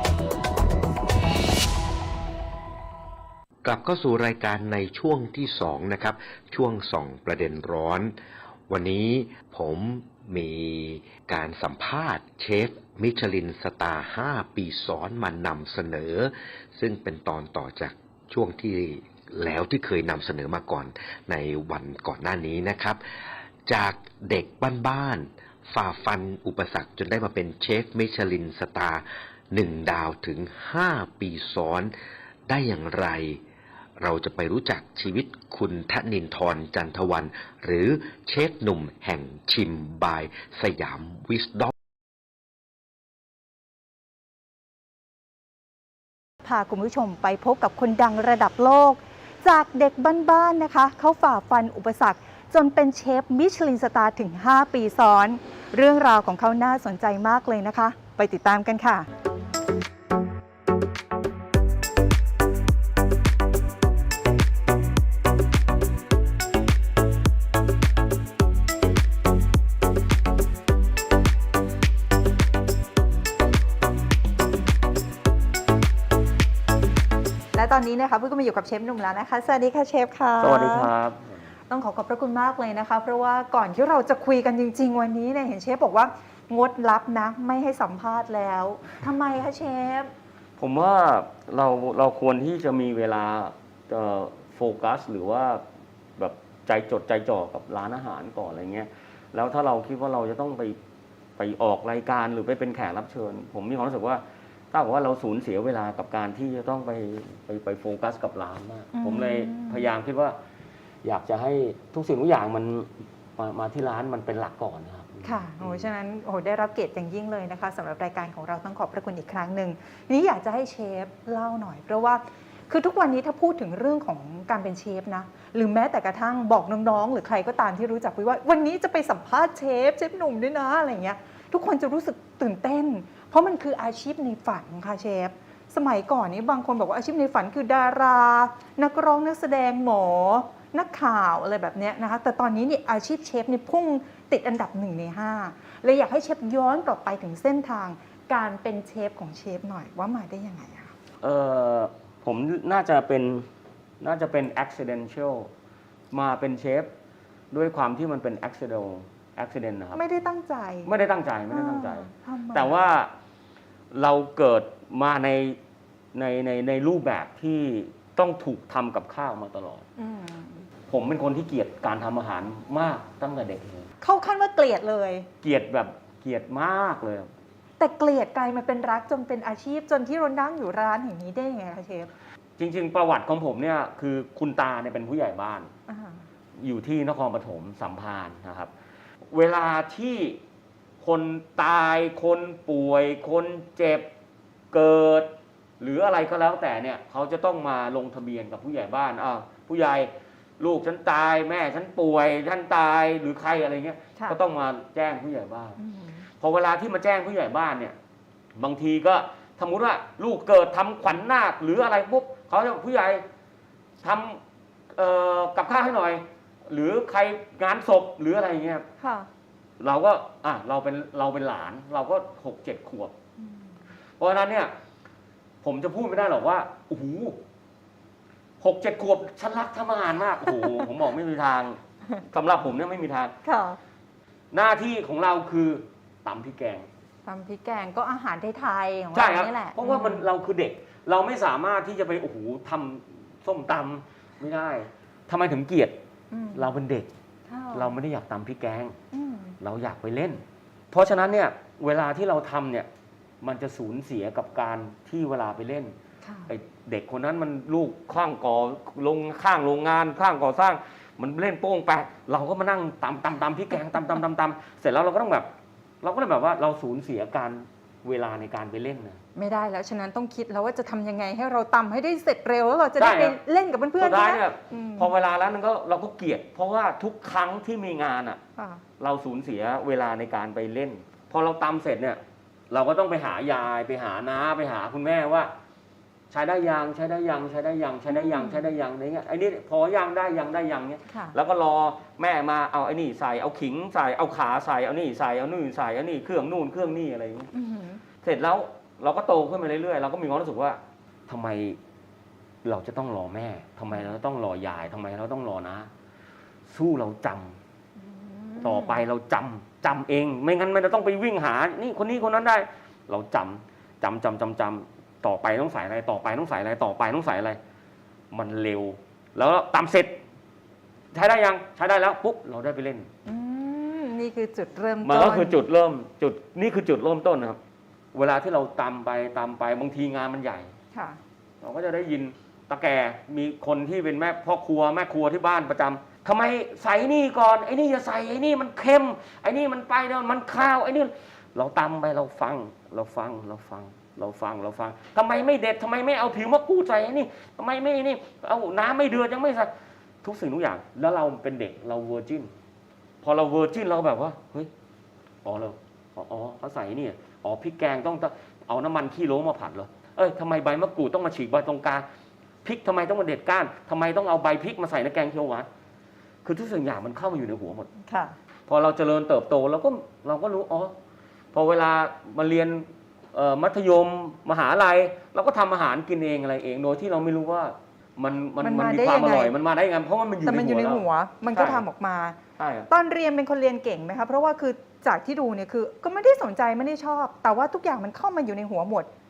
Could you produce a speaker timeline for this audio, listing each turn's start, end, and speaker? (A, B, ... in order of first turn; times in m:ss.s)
0:03.6-0:08.2 A
0:08.7-0:23.0 A
0:23.7-0:31.9 A
0:32.5-0:33.4 A
0:34.0-0:41.7 A
0:46.4-0:59.1 B
1:17.5-1:20.9 B
1:20.4-1:21.5 C
1:21.7-1:30.1 B
1:30.6-1:35.6 C
1:36.2-1:40.8 C
1:41.4-1:50.4 C
1:48.9-1:49.9 B
1:51.0-1:55.9 C
1:55.2-2:30.9 B
2:31.2-2:33.5 C
2:34.0-2:35.5 C
2:36.1-2:36.9 C
2:37.5-2:40.0 C
2:39.9-2:40.9 B
2:40.8-2:43.1 C
2:41.5-2:42.8 B
2:43.9-2:45.6 C
2:46.1-2:49.8 C
2:50.0-2:50.7 B
2:50.9-2:53.9 C
2:54.0-2:55.3 B
2:55.4-2:57.3 C
2:57.8-3:02.1 B
3:02.6-3:05.7 C
3:05.9-3:06.2 B
3:06.6-3:08.7 C
3:09.3-3:10.4 C
3:11.0-3:14.1 C
3:14.7-3:25.8 C
3:25.8-3:26.3 B
3:26.4-3:28.0 C
3:28.6-3:33.2 C
3:34.0-3:34.4 C
3:34.9-3:38.8 C
3:39.0-3:39.3 B
3:39.8-3:43.1 C
3:43.4-3:43.8 B
3:44.2-3:44.7 C
3:45.6-3:47.4 C
3:48.6-3:53.3 C
3:50.5-3:50.8 B
3:53.4-3:53.8 B
3:54.5-3:56.9 C
3:57.2-4:00.2 B
3:59.1-4:06.0 C
4:06.3-4:06.7 B
4:06.5-4:07.1 C
4:07.5-4:08.0 B
4:07.7-4:09.0 C
4:09.1-4:09.6 B
4:09.6-4:12.9 C
4:13.4-4:15.9 C
4:16.2-4:16.5 B
4:16.5-4:25.5 C
4:26.0-4:29.2 C
4:29.4-4:35.1 B
4:33.0-4:33.4 C
4:34.0-4:38.4 C
4:38.6-4:38.8 B
4:39.0-4:45.5 C
4:46.3-4:57.5 C
4:48.1-4:48.7 B
4:51.1-4:51.4 B
4:57.5-4:58.0 B
4:58.2-5:01.8 C
5:02.6-5:05.9 C
5:06.7-5:07.6 C
5:08.0-5:09.0 B
5:08.6-5:17.6 C
5:18.3-5:20.2 C
5:21.1-5:23.1 C
5:23.2-5:25.6 B
5:25.0-5:27.6 C
5:28.1-5:30.7 C
5:30.9-5:31.2 B
5:31.6-5:49.7 C
5:50.2-5:52.5 C
5:53.2-5:54.7 C
5:55.4-6:02.1 C
6:02.6-6:05.7 C
6:06.4-6:07.9 C
6:08.0-6:08.4 B
6:08.7-6:10.9 C
6:11.5-6:21.8 C
6:18.6-6:19.6 B
6:20.4-6:22.4 B
6:22.6-6:22.9 C
6:22.9-6:29.1 B